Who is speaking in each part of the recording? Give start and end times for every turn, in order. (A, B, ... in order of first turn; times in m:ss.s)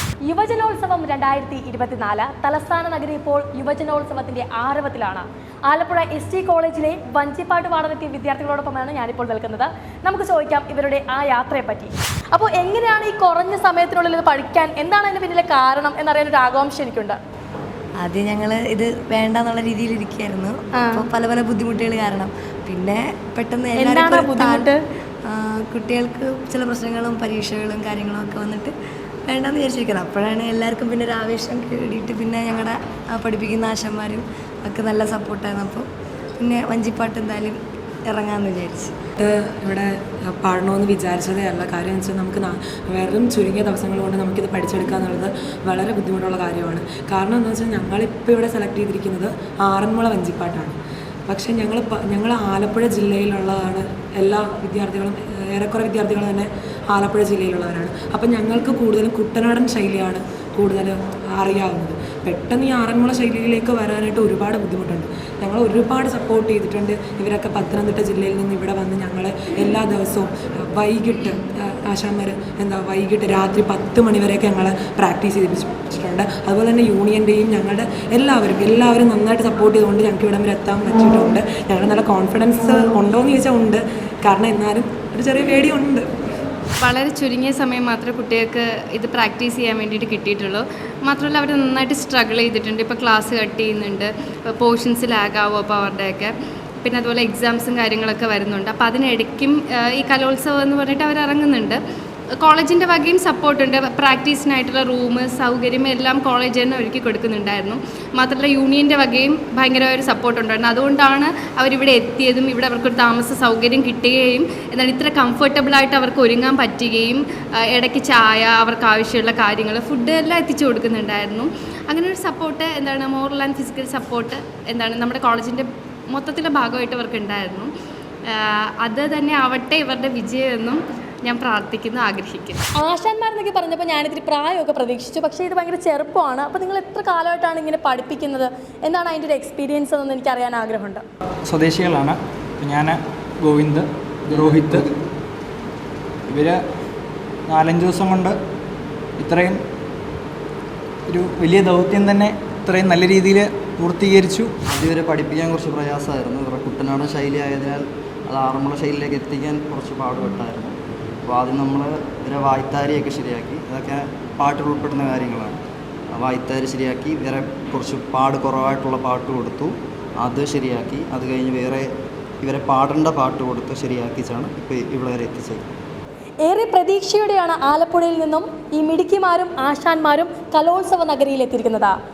0:00.2-0:17.2 A
0:18.0-0:24.7 B
0:20.8-0:21.1 A
0:23.8-0:24.8 A
0:25.3-0:28.7 B
0:29.3-0:35.9 B
0:36.4-0:38.9 B
0:39.2-0:50.8 C
0:51.3-1:26.1 C
1:26.8-1:41.8 D
1:42.4-2:07.7 D
2:08.3-2:12.6 D
2:12.8-2:21.0 A
2:21.5-2:24.9 E
2:26.3-2:26.6 E
2:27.5-2:28.4 E
2:29.2-2:29.6 E
2:31.1-2:34.5 E
2:34.7-2:40.8 F
2:41.3-2:45.6 F
2:46.2-2:51.9 F
2:52.4-2:55.7 F
2:56.4-3:02.0 A